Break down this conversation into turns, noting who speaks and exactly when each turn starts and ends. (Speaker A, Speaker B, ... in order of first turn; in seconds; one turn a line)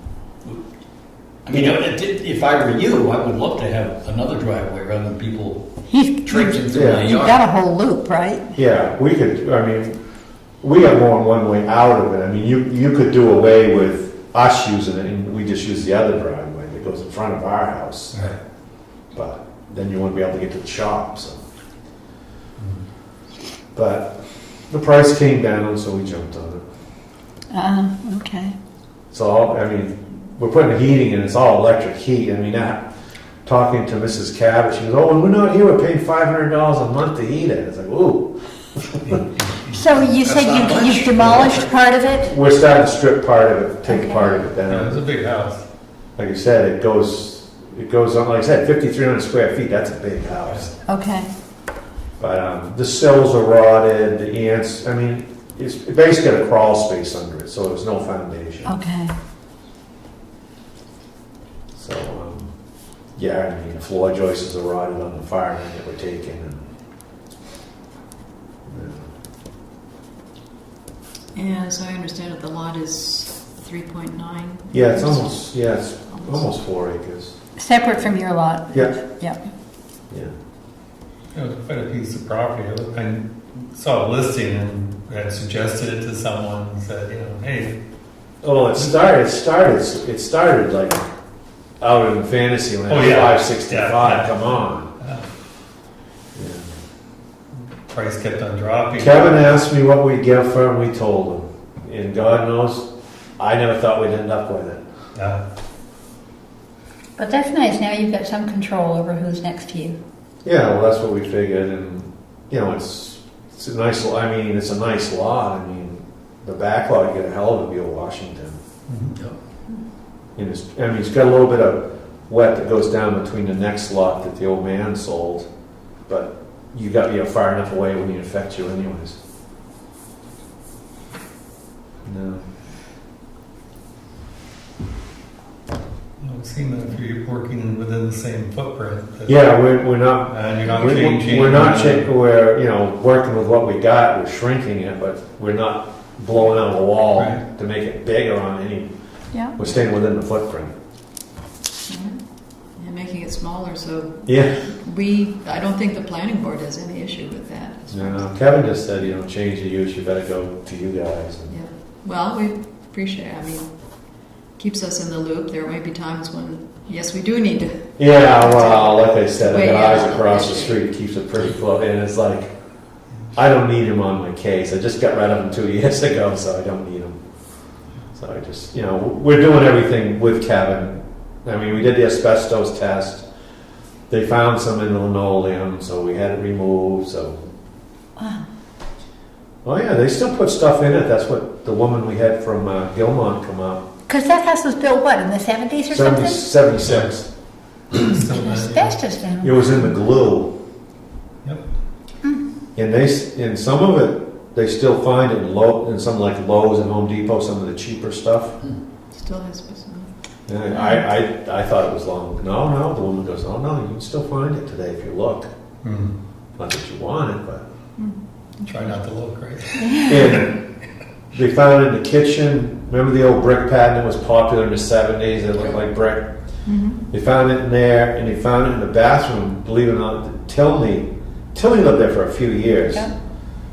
Speaker A: 1.5-5.7
Speaker B: 5.9-8.6
Speaker A: 6.2-7.4
Speaker C: 6.7-7.1
Speaker C: 8.5-10.0
Speaker C: 10.6-18.3
Speaker C: 19.1-21.4
Speaker C: 23.8-26.6
Speaker B: 27.5-28.6
Speaker C: 29.1-32.9
Speaker C: 33.5-39.2
Speaker B: 39.7-42.3
Speaker A: 40.1-41.7
Speaker C: 42.2-45.0
Speaker B: 43.9-44.5
Speaker D: 44.6-45.6
Speaker C: 46.2-50.7
Speaker B: 50.9-51.3
Speaker C: 52.2-58.7
Speaker B: 58.7-59.1
Speaker C: 61.8-62.5
Speaker C: 63.2-66.6
Speaker C: 68.7-69.1
Speaker E: 71.3-75.5
Speaker C: 74.7-77.3
Speaker E: 76.1-76.5
Speaker B: 77.6-79.4
Speaker D: 81.3-87.8
Speaker C: 88.4-91.1
Speaker C: 91.8-94.9
Speaker D: 92.9-95.2
Speaker C: 96.3-96.7
Speaker D: 97.7-99.6
Speaker C: 99.0-104.8
Speaker D: 105.2-105.4
Speaker B: 107.2-110.0
Speaker C: 110.4-118.6
Speaker D: 118.9-119.1
Speaker C: 120.4-125.5
Speaker C: 126.1-129.2
Speaker C: 132.1-132.4
Speaker D: 136.2-139.4
Speaker C: 139.3-148.9
Speaker D: 140.3-142.1
Speaker C: 149.6-150.7
Speaker E: 151.9-158.3
Speaker C: 154.3-154.7
Speaker C: 157.9-161.6
Speaker E: 161.5-170.8
Speaker C: 168.0-172.5
Speaker C: 173.3-177.2
Speaker C: 178.2-183.2
Speaker C: 184.1-187.4
Speaker B: 188.2-188.4
Speaker C: 189.7-193.8
Speaker B: 194.1-196.4
Speaker C: 195.9-197.3
Speaker D: 197.9-199.0
Speaker B: 198.3-199.7
Speaker C: 199.4-200.6
Speaker C: 202.8-208.6
Speaker E: 209.1-210.1
Speaker C: 210.5-215.5
Speaker B: 210.7-211.0
Speaker D: 215.8-216.1
Speaker C: 216.6-217.6
Speaker E: 218.0-219.0
Speaker D: 218.7-220.5
Speaker B: 219.9-220.1
Speaker C: 220.1-220.6
Speaker C: 221.3-226.3
Speaker E: 226.7-227.0
Speaker C: 227.1-233.1